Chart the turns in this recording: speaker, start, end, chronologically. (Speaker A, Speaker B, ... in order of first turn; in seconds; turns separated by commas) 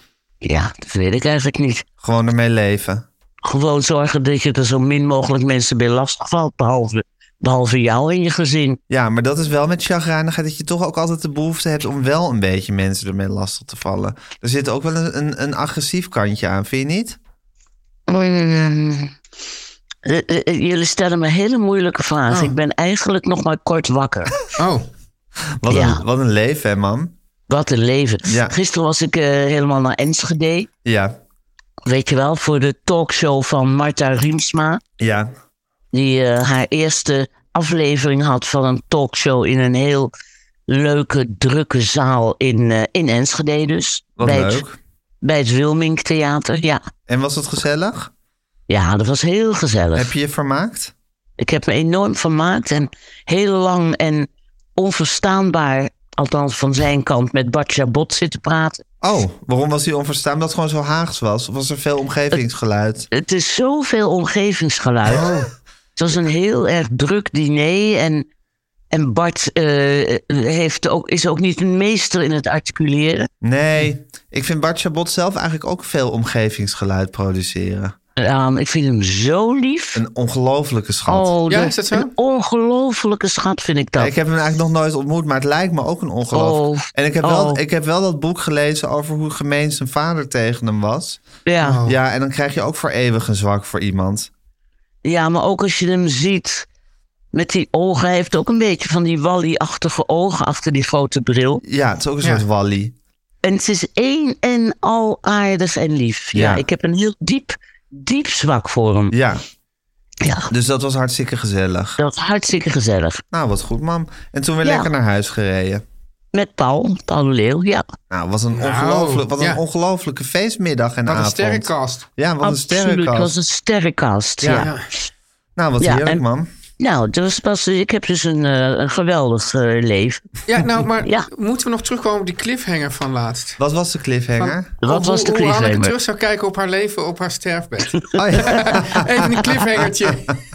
Speaker A: 0.4-1.8, Speaker B: 2.0-3.0, Speaker A: 3.4-8.8, Speaker B: 8.9-17.2, Speaker A: 18.1-19.1, Speaker A: 20.0-24.3, Speaker C: 22.3-22.5, Speaker C: 24.6-24.9, Speaker B: 25.6-27.1, Speaker A: 25.7-26.0, Speaker A: 27.5-30.7, Speaker B: 28.2-28.5, Speaker B: 30.8-31.1, Speaker A: 31.9-34.8, Speaker B: 35.0-35.3, Speaker A: 35.9-40.1, Speaker A: 40.7-44.6, Speaker B: 44.2-44.8, Speaker A: 45.2-46.8, Speaker B: 47.1-48.1, Speaker A: 48.7-50.1, Speaker B: 50.0-50.9, Speaker A: 51.4-58.8, Speaker B: 59.0-63.1, Speaker A: 63.1-65.3, Speaker C: 65.1-65.5, Speaker A: 66.0-68.2, Speaker A: 68.9-73.3, Speaker B: 73.4-77.9, Speaker A: 78.2-80.0, Speaker B: 79.9-81.3, Speaker A: 81.1-84.1, Speaker C: 81.5-82.1, Speaker B: 84.0-91.2, Speaker A: 86.3-87.6, Speaker A: 91.5-91.8, Speaker C: 91.6-92.0, Speaker B: 91.8-94.3, Speaker A: 95.0-96.7, Speaker A: 97.3-101.6, Speaker B: 101.6-102.9, Speaker A: 103.4-109.1, Speaker B: 106.3-106.6, Speaker B: 109.1-109.4, Speaker A: 110.2-110.5, Speaker B: 110.5-112.0, Speaker A: 112.0-113.2, Speaker B: 113.3-115.8, Speaker A: 114.6-114.9, Speaker A: 116.3-117.8, Speaker B: 118.1-123.3, Speaker C: 118.5-119.6, Speaker C: 121.1-122.1, Speaker A: 122.4-124.8, Speaker B: 124.4-124.7, Speaker C: 124.5-124.9, Speaker B: 125.5-126.5, Speaker A: 125.8-126.2, Speaker A: 126.8-130.2, Speaker C: 130.5-133.6, Speaker B: 133.6-134.7, Speaker C: 134.4-140.3, Speaker A: 134.8-135.9, Speaker A: 137.9-138.2, Speaker B: 138.2-139.2